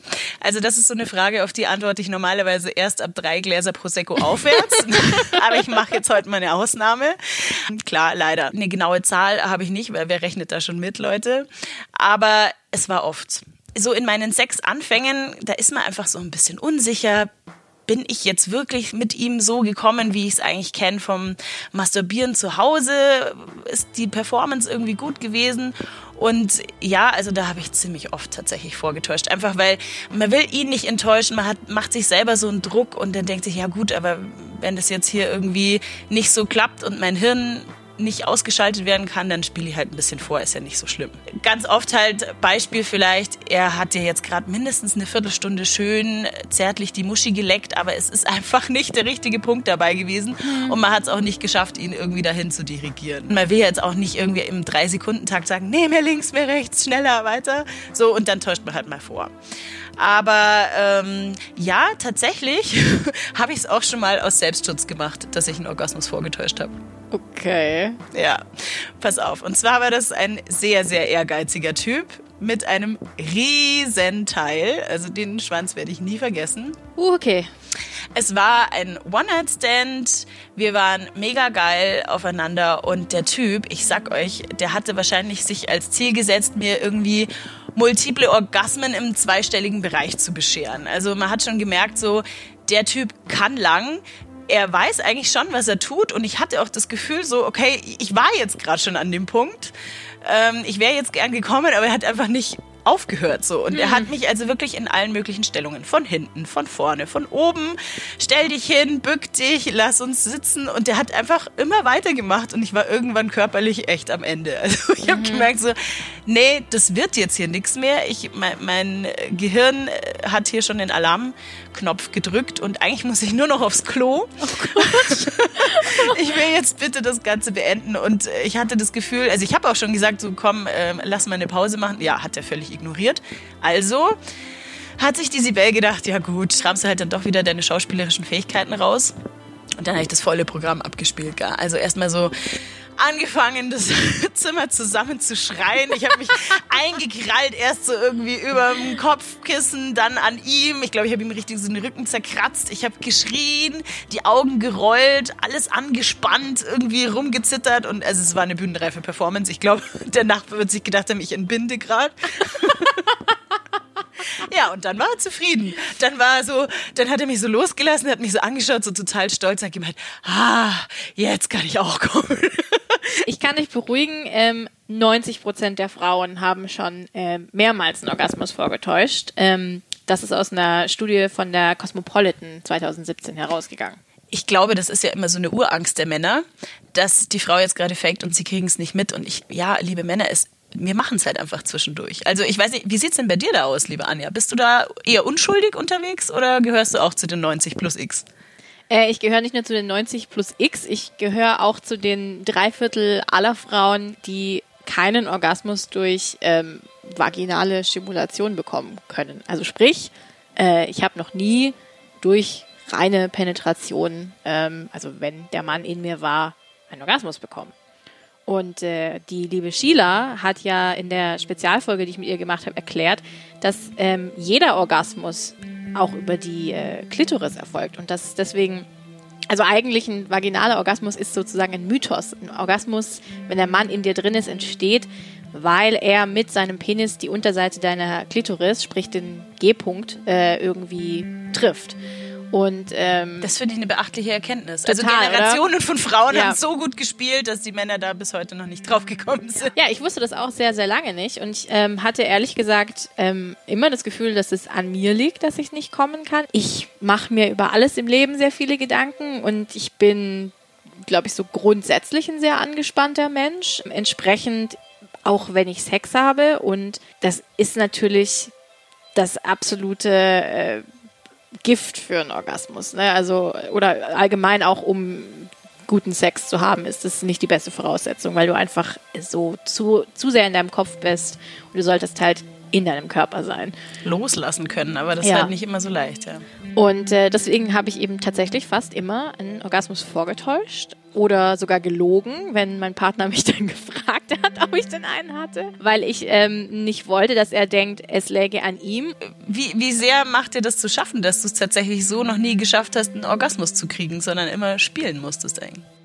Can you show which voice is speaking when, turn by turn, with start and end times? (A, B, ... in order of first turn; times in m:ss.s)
0:00.4-0:17.3 A
0:17.9-0:59.3 A
0:50.5-0:50.8 B
1:00.0-1:06.8 A
1:07.1-1:08.0 B
1:08.1-1:16.8 A
1:17.0-1:17.5 B
1:18.2-2:14.2 A
1:55.0-1:55.5 B
2:04.5-2:05.2 B
2:15.0-2:19.1 A
2:19.8-2:22.3 A
2:23.0-2:43.1 A
2:44.4-2:53.2 A
2:53.2-3:04.0 B
3:04.3-3:18.3 A
3:18.9-3:37.7 B
3:38.5-3:48.9 B
3:49.5-4:02.0 B
4:02.5-4:03.5 B
4:03.4-4:09.7 A
4:04.8-4:05.6 B
4:06.3-4:06.6 B
4:09.7-4:28.5 B
4:29.1-4:30.8 B
4:31.6-4:43.8 B
4:44.0-4:46.4 A
4:45.2-4:45.5 B
4:46.8-4:59.1 B
4:59.2-5:05.8 A